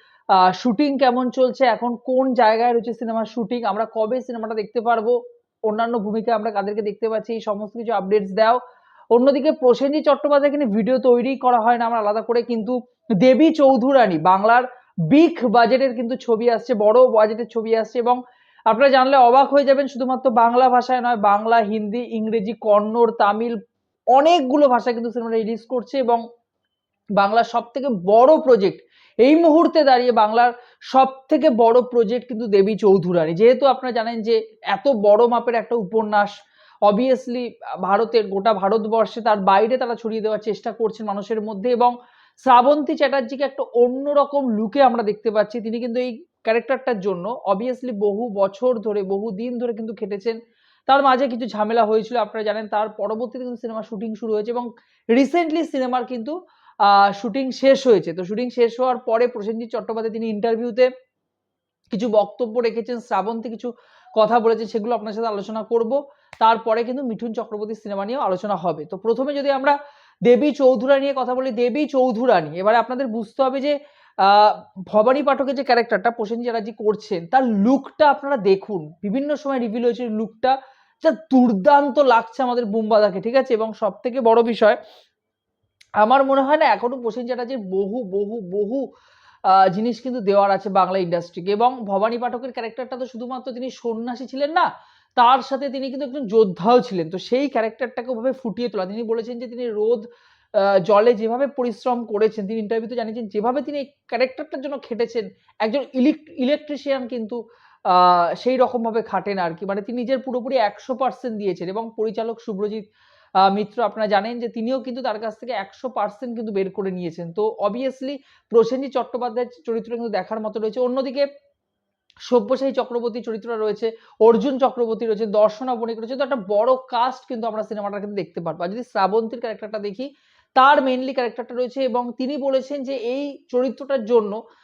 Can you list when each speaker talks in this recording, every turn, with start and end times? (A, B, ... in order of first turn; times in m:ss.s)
0:00.3-0:05.2 A
0:05.7-0:08.6 A
0:09.1-0:23.6 A
0:24.1-0:26.2 A
0:27.2-0:36.3 A
0:36.8-0:50.4 A
0:50.9-1:00.9 A
1:01.9-1:24.8 A
1:26.0-1:28.8 A
1:29.5-1:52.8 A
1:53.4-2:01.3 A
2:02.3-2:14.4 A